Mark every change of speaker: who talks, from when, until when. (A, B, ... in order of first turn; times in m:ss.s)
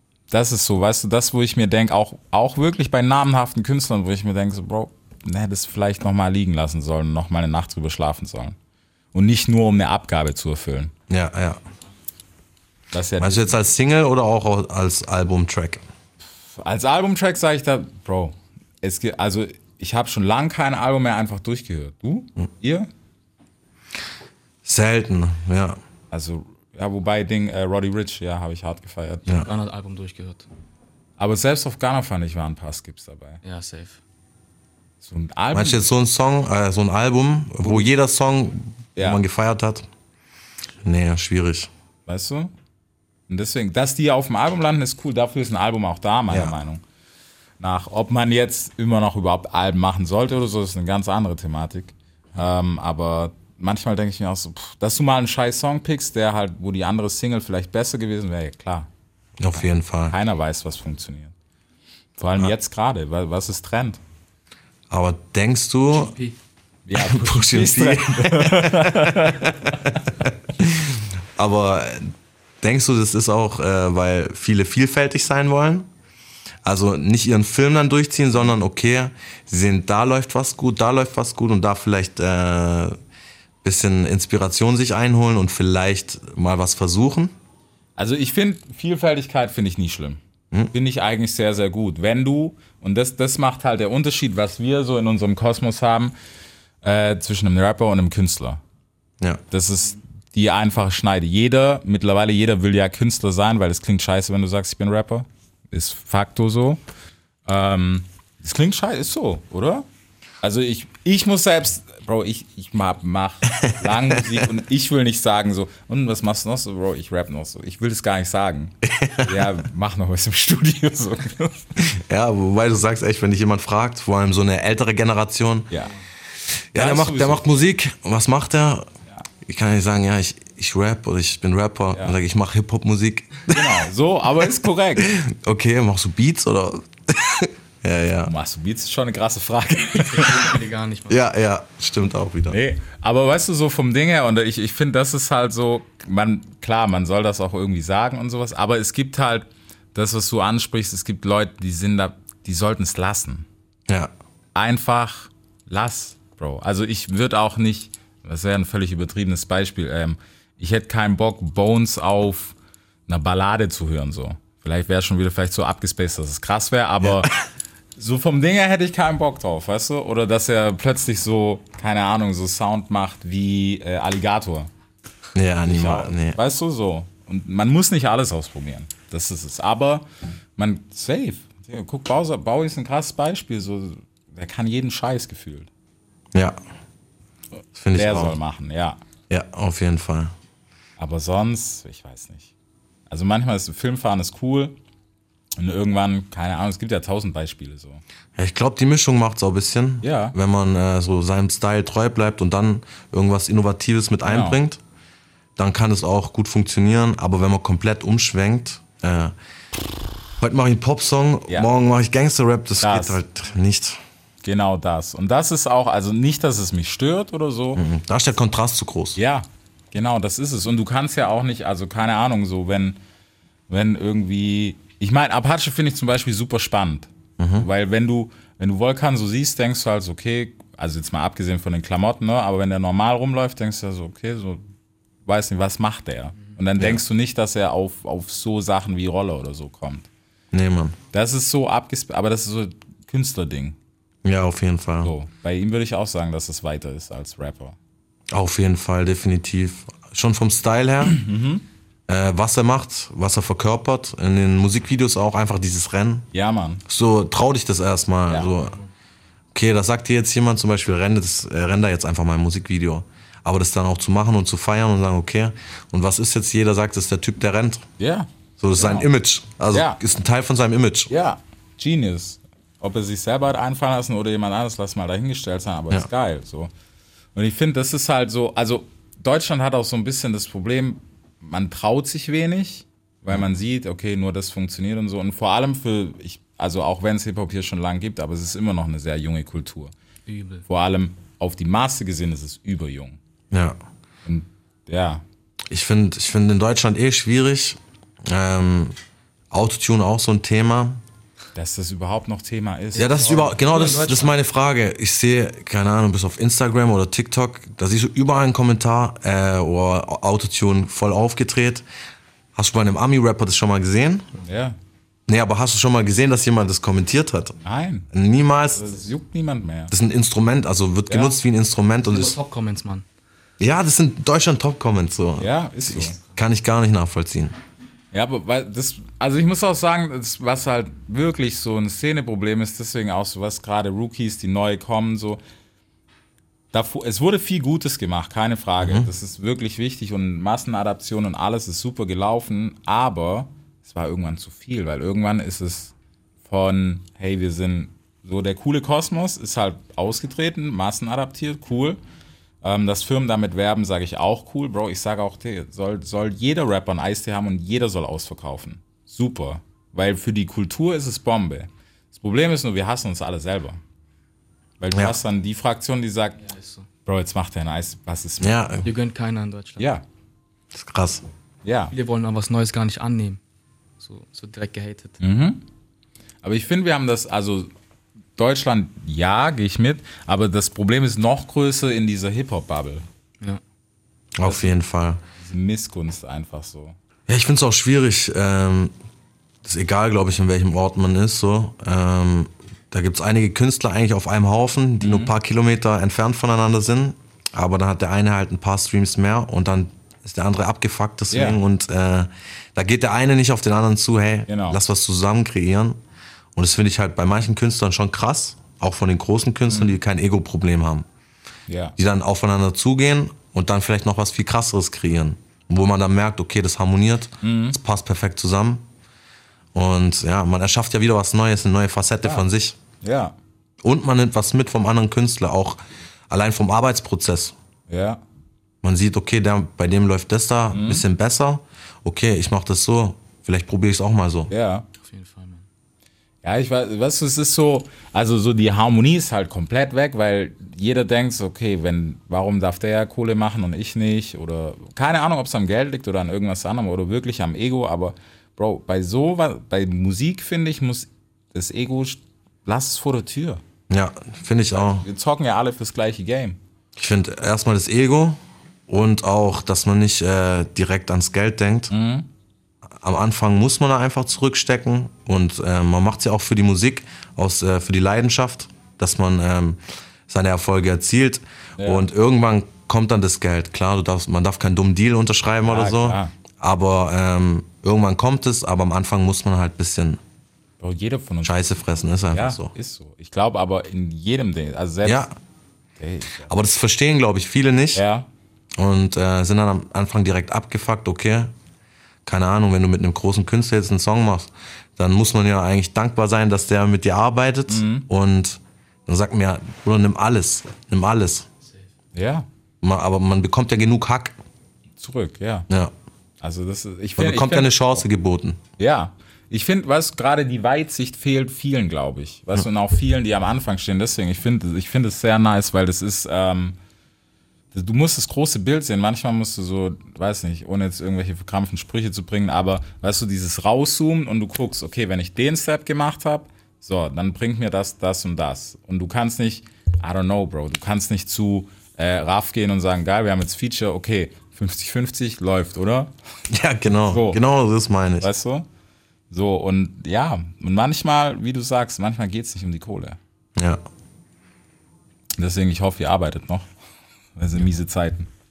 0:00.3-0:08.6 A
0:09.1-0:10.9 A
0:11.1-0:11.6 B
0:12.9-0:13.6 A
0:13.2-0:15.8 B
0:16.5-0:22.9 A
0:24.6-0:25.8 B
0:26.1-0:29.5 A
0:29.4-0:30.5 C
0:31.2-0:33.4 A
0:33.4-0:34.0 C
0:35.0-0:35.9 A
0:35.5-0:39.9 B
0:39.0-0:39.2 A
0:40.8-0:41.7 B
0:42.1-0:42.5 A
0:43.3-0:46.8 A
0:47.6-0:58.9 A
0:59.4-1:00.2 B
0:59.5-1:01.3 A
1:02.2-1:04.0 A
1:04.9-1:06.2 B
1:05.9-1:06.4 C
1:06.9-1:10.0 A
1:07.0-1:15.9 B
1:16.6-1:23.0 B
1:23.6-1:27.4 B
1:28.0-1:30.2 A
1:30.7-1:36.2 A
1:36.8-1:38.6 A
1:39.5-1:46.8 A
1:47.5-1:49.9 A
1:50.4-2:01.7 A
1:53.6-1:54.2 B
1:58.8-1:59.4 B
2:01.8-2:05.7 B
2:06.7-2:08.9 B
2:06.8-2:07.4 A
2:09.4-2:13.7 B
2:13.5-2:15.1 A
2:15.0-2:18.3 B
2:18.3-2:20.5 A
2:20.0-2:21.2 C
2:21.1-2:22.6 B
2:22.5-2:33.5 A
2:34.6-2:42.6 A
2:43.1-2:47.3 A
2:47.0-2:47.3 B
2:48.0-2:54.7 A
2:55.4-2:56.4 B
2:55.7-3:00.1 A
3:00.6-3:05.7 A
3:07.8-3:08.4 B
3:07.9-3:09.0 A
3:09.3-3:10.3 B
3:11.0-3:12.5 A
3:13.1-3:14.8 A
3:15.6-3:18.0 A
3:18.4-3:24.8 B
3:20.0-3:20.4 A
3:24.3-3:24.6 A
3:25.6-3:29.3 B
3:30.4-3:34.0 B
3:32.8-3:33.2 A
3:34.4-3:37.8 A
3:37.8-3:39.2 B
3:39.2-3:43.0 A
3:43.7-3:54.6 A
3:47.4-3:47.7 B
3:55.3-4:00.1 A
4:00.5-4:01.0 B
4:01.1-4:03.8 A
4:04.2-4:05.1 B
4:05.0-4:07.8 A
4:08.3-4:11.2 B
4:11.1-4:11.6 A
4:12.1-4:16.3 B
4:16.3-4:16.8 A
4:16.9-4:18.8 B
4:19.5-4:27.8 B
4:28.0-4:29.1 A
4:28.6-4:31.1 B
4:29.7-4:30.0 A
4:31.1-4:36.7 A
4:37.4-4:49.9 A
4:50.3-4:50.6 C
4:50.7-4:53.2 A
4:53.5-4:53.8 B
4:54.3-4:55.2 A
4:55.7-4:59.0 B
4:59.5-5:01.0 B
5:01.6-5:03.5 A
5:03.0-5:04.4 C
5:03.0-5:11.8 B
5:12.6-5:14.3 B
5:14.4-5:14.8 A
5:15.3-5:17.6 B
5:17.6-5:18.1 A
5:18.1-5:18.9 B
5:18.7-5:19.9 A
5:19.9-5:22.4 B
5:21.1-5:21.4 A
5:22.1-5:23.0 C
5:23.6-5:27.5 B
5:25.4-5:26.2 A
5:28.1-5:35.4 A
5:36.7-5:45.9 A
5:38.8-5:39.1 B
5:46.5-5:52.0 A
5:52.6-6:03.8 A
6:04.8-6:06.4 A
6:06.4-6:06.9 C
6:07.0-6:08.6 A
6:08.4-6:08.9 B
6:08.8-6:09.9 C
6:09.8-6:10.0 A
6:10.7-6:11.2 B
6:11.6-6:11.9 A
6:11.9-6:13.4 C
6:14.0-6:15.2 C
6:15.2-6:15.6 A
6:16.4-6:17.7 A
6:18.4-6:23.1 A
6:24.4-6:25.2 B
6:24.4-6:24.7 A
6:25.4-6:27.0 A
6:27.3-6:28.9 B
6:29.6-6:46.0 B
6:35.0-6:35.3 A
6:41.3-6:41.6 A
6:44.5-6:44.8 A
6:46.6-6:51.1 B
6:49.7-6:50.0 A
6:51.7-6:52.0 A
6:52.0-6:58.8 B
6:57.4-6:57.8 A
6:59.7-7:02.8 B
7:03.0-7:03.4 A
7:03.8-7:05.8 B
7:06.3-7:07.5 B
7:07.9-7:08.2 A
7:08.8-7:14.5 B
7:10.7-7:11.0 A
7:14.5-7:14.9 A
7:15.0-7:15.6 C
7:16.4-7:33.6 A
7:33.9-7:35.1 B
7:34.7-7:36.6 A
7:37.0-7:41.9 B
7:41.9-7:42.3 A
7:43.0-8:00.2 B
7:51.8-7:52.1 A
7:55.7-7:56.3 A
8:00.8-8:01.7 A
8:01.4-8:02.7 B
8:02.3-8:05.3 A
8:05.0-8:05.3 B
8:06.0-8:06.5 A
8:06.5-8:08.0 B
8:08.0-8:08.3 A
8:08.8-8:11.5 B
8:12.3-8:21.5 B
8:17.7-8:18.1 A
8:22.1-8:22.5 A
8:22.8-8:24.4 B
8:25.0-8:25.7 A
8:26.4-8:28.0 A
8:27.2-8:28.6 B
8:28.8-8:36.8 A
8:37.7-8:56.1 A
8:56.5-8:58.3 B
8:57.0-8:57.4 A
8:58.2-8:58.7 A
8:59.3-9:03.2 A
9:03.6-9:03.8 B
9:05.4-9:06.7 A
9:07.4-9:08.3 A